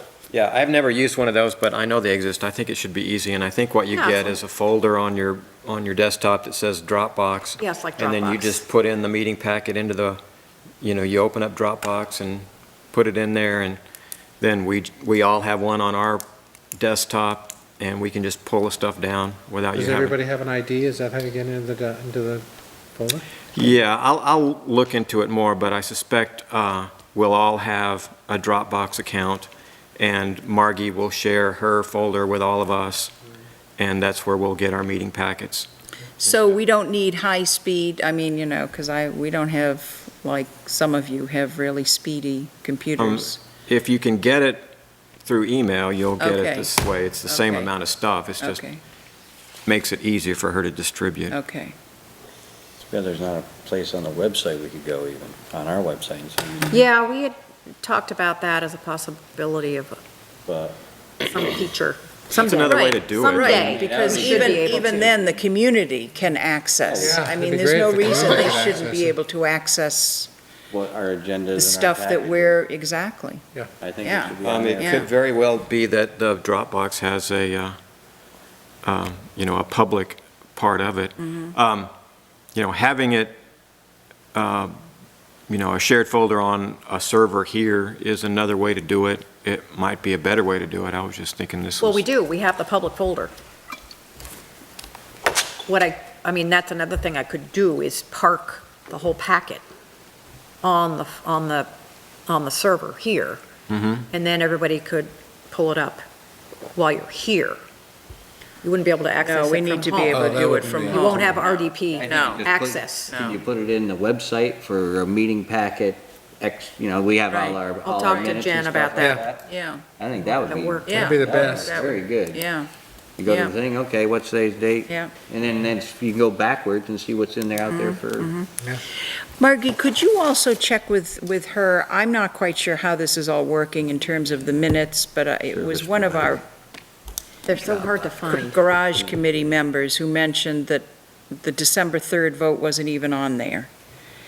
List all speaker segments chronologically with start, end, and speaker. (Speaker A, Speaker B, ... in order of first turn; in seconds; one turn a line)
Speaker A: 0.3-10.2
Speaker B: 3.9-4.4
Speaker B: 7.6-8.6
Speaker A: 10.8-13.8
Speaker A: 14.4-16.2
Speaker A: 16.8-20.2
Speaker C: 19.7-23.3
Speaker A: 23.5-33.1
Speaker A: 33.8-35.7
Speaker D: 36.2-43.4
Speaker A: 43.0-44.7
Speaker A: 45.2-48.6
Speaker D: 46.2-46.7
Speaker D: 47.3-47.7
Speaker D: 48.4-48.8
Speaker A: 49.7-51.4
Speaker D: 51.3-51.8
Speaker E: 52.9-56.9
Speaker B: 56.7-60.0
Speaker E: 60.5-60.8
Speaker B: 61.3-65.2
Speaker A: 62.3-63.8
Speaker E: 63.2-65.4
Speaker D: 64.0-70.3
Speaker E: 66.9-67.3
Speaker C: 67.0-69.2
Speaker E: 70.7-72.6
Speaker D: 71.6-73.4
Speaker E: 73.8-75.1
Speaker D: 74.0-75.1
Speaker A: 74.4-77.8
Speaker A: 78.8-81.9
Speaker A: 82.5-83.4
Speaker A: 84.3-84.8
Speaker A: 85.5-92.0
Speaker B: 91.8-93.3
Speaker B: 95.7-99.6
Speaker B: 100.6-101.7
Speaker B: 102.3-103.4
Speaker A: 103.7-104.0
Speaker B: 104.1-106.0
Speaker B: 106.8-107.6
Speaker B: 108.6-113.3
Speaker D: 109.2-112.5
Speaker C: 110.1-111.4
Speaker E: 111.9-122.5
Speaker D: 113.1-113.4
Speaker D: 117.3-118.4
Speaker B: 117.8-119.2
Speaker D: 119.5-119.8
Speaker B: 120.4-121.2
Speaker D: 120.9-122.7
Speaker C: 120.9-121.7
Speaker E: 123.2-128.3
Speaker D: 123.3-123.5
Speaker D: 124.9-125.1
Speaker D: 127.7-128.5
Speaker D: 129.4-136.4
Speaker E: 135.5-136.4
Speaker B: 137.5-138.6
Speaker D: 138.3-143.7